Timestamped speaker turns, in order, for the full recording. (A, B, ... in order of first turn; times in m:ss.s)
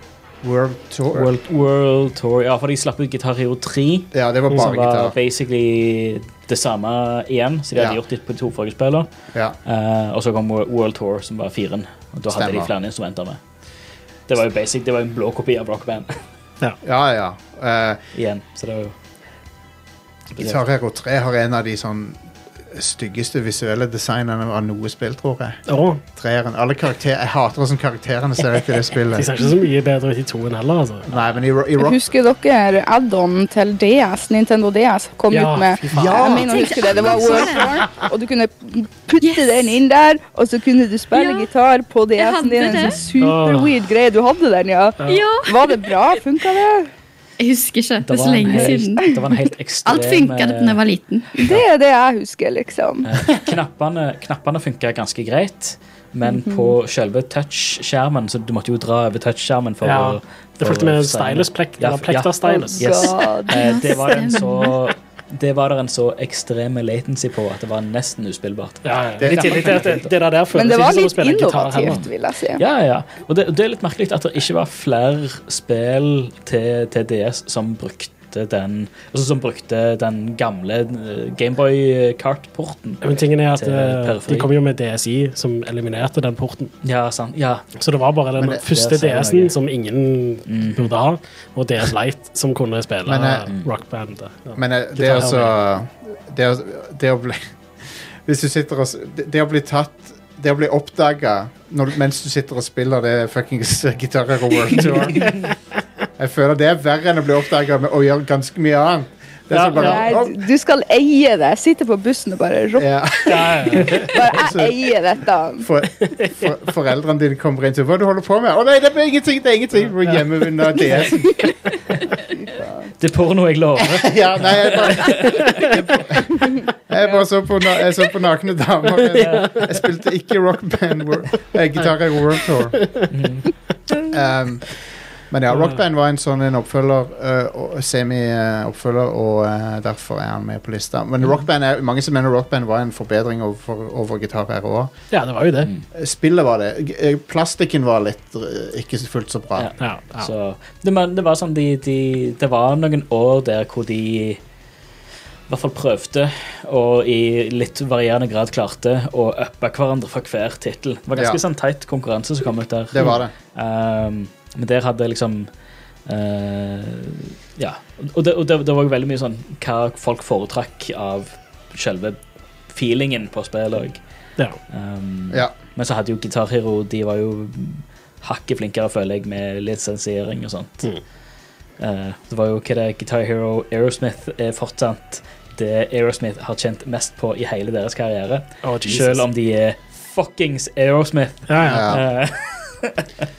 0:00.4-0:01.3 A
0:01.1-0:09.1 B
0:04.1-0:05.2 A
0:09.6-0:13.4 B
0:12.3-0:12.7 A
0:14.3-0:16.2 B
0:16.8-0:18.0 A
0:18.2-0:18.9 B
0:20.4-0:25.6 A
0:25.7-0:26.0 C
0:26.2-0:29.3 A
0:29.1-0:31.1 C
0:31.1-0:32.1 A
0:31.8-0:46.9 D
0:35.3-0:36.5 C
0:36.0-0:37.9 E
0:39.2-0:39.7 E
0:41.1-0:41.5 E
0:42.2-0:43.1 E
0:43.2-0:43.7 C
0:45.0-0:45.7 E
0:47.4-0:49.2 E
0:48.0-0:50.8 B
0:48.5-0:49.2 D
0:49.9-0:51.5 E
0:51.4-0:53.1 D
0:53.0-1:10.1 B
0:56.2-0:56.8 D
0:59.8-1:02.8 C
1:02.7-1:04.3 D
1:03.2-1:04.8 E
1:08.8-1:12.0 C
1:09.2-1:09.6 A
1:10.5-1:12.6 D
1:12.6-1:24.5 B
1:23.0-1:26.7 C
1:26.8-1:27.6 B
1:27.8-1:35.6 C
1:28.6-1:29.5 B
1:30.5-1:30.9 B
1:33.1-1:33.5 A
1:34.6-1:45.4 A
1:46.2-1:50.4 A
1:49.5-1:50.0 C
1:49.8-1:52.9 D
1:52.8-1:54.8 A
1:53.3-1:54.1 C
1:54.0-1:55.7 D
1:55.6-2:01.6 A
2:03.0-2:06.1 B
2:03.9-2:12.8 A
2:05.2-2:05.7 C
2:09.1-2:09.6 C
2:09.2-2:09.7 B
2:13.1-2:13.5 B
2:14.1-2:14.8 A
2:15.3-2:24.9 A
2:15.5-2:15.8 C
2:25.1-2:25.7 C
2:25.9-2:29.7 A
2:29.6-2:34.4 B
2:29.8-2:30.3 C
2:35.5-2:45.5 B
2:42.9-2:43.3 A
2:46.1-2:52.2 B
2:52.7-2:54.0 B
2:54.7-3:00.9 B
3:01.8-3:13.3 B
3:08.6-3:09.3 C
3:11.5-3:11.8 C
3:11.6-3:12.1 A